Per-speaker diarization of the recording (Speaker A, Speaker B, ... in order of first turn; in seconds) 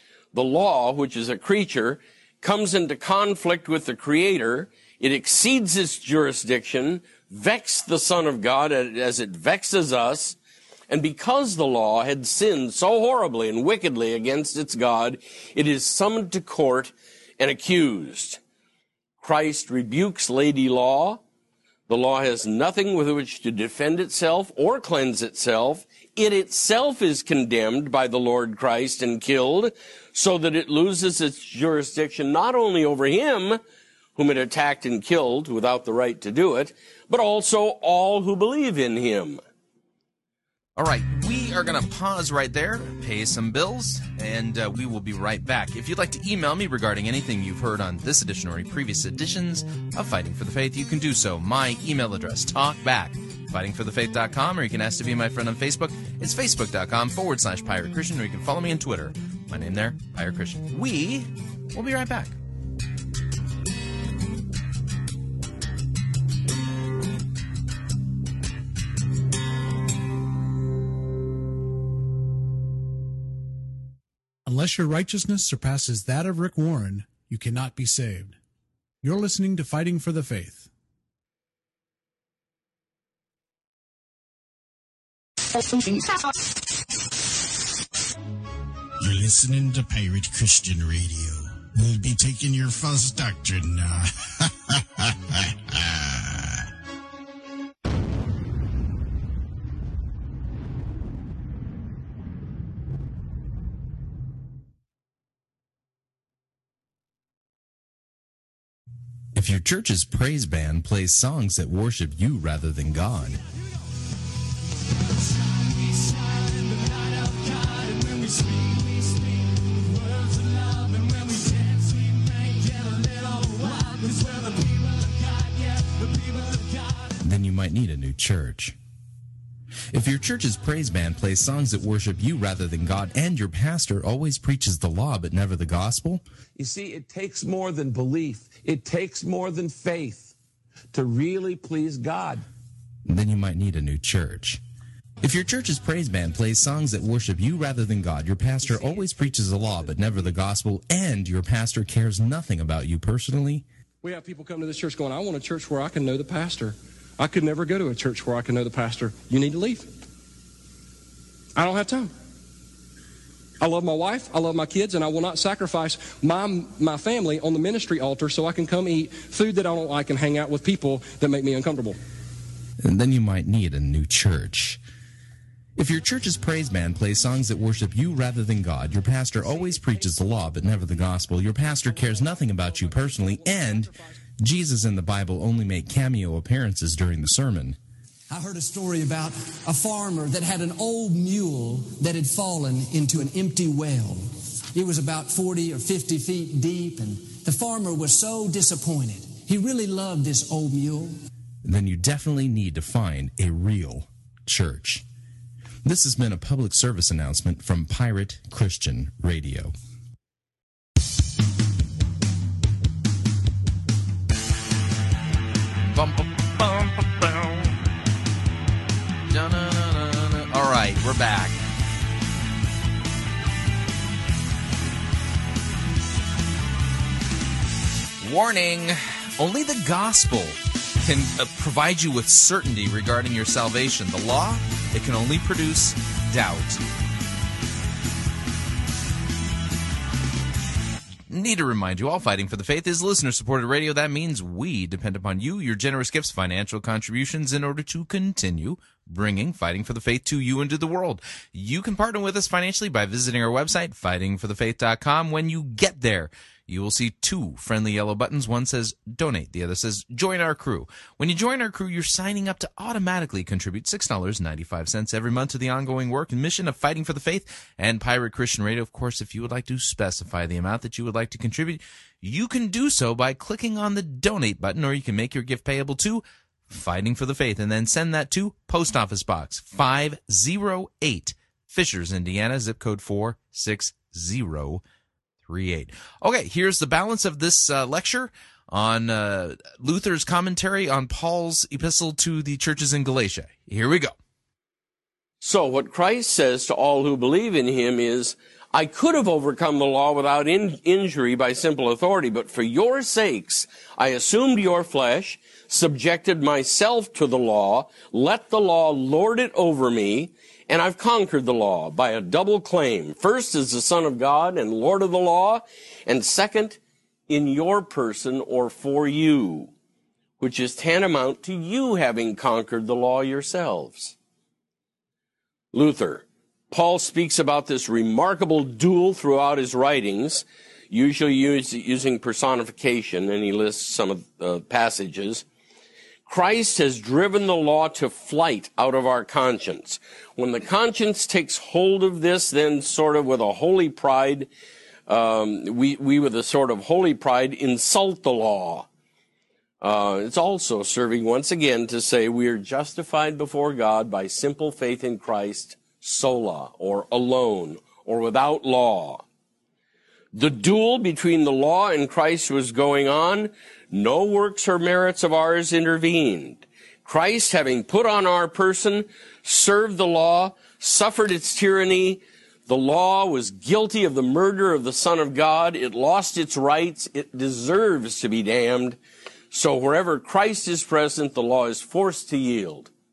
Speaker A: 0.3-10.4, 10.9-18.4, 19.2-21.2, 21.9-33.6, 34.1-39.4, 295.4-319.7, 320.4-324.1, 325.7-335.4, 336.2-344.5, 345.1-348.9, 349.8-359.2, 360.3-379.0, 379.5-382.9
Speaker B: 40.8-62.4, 109.3-113.4, 127.2-128.8, 129.9-136.2, 143.1-144.6, 145.2-153.7, 172.8-174.8, 175.8-187.8, 201.6-205.0, 205.8-209.7, 215.8-217.7, 219.3-221.6, 228.2-236.8, 241.3-284.8, 285.5-294.1
Speaker C: 74.4-78.4, 79.0-80.7
Speaker D: 89.0-96.6
Speaker E: 115.0-127.2, 188.3-201.1
Speaker F: 136.6-140.3, 140.9-142.4
Speaker G: 154.0-159.9, 161.6-162.1, 163.6-172.0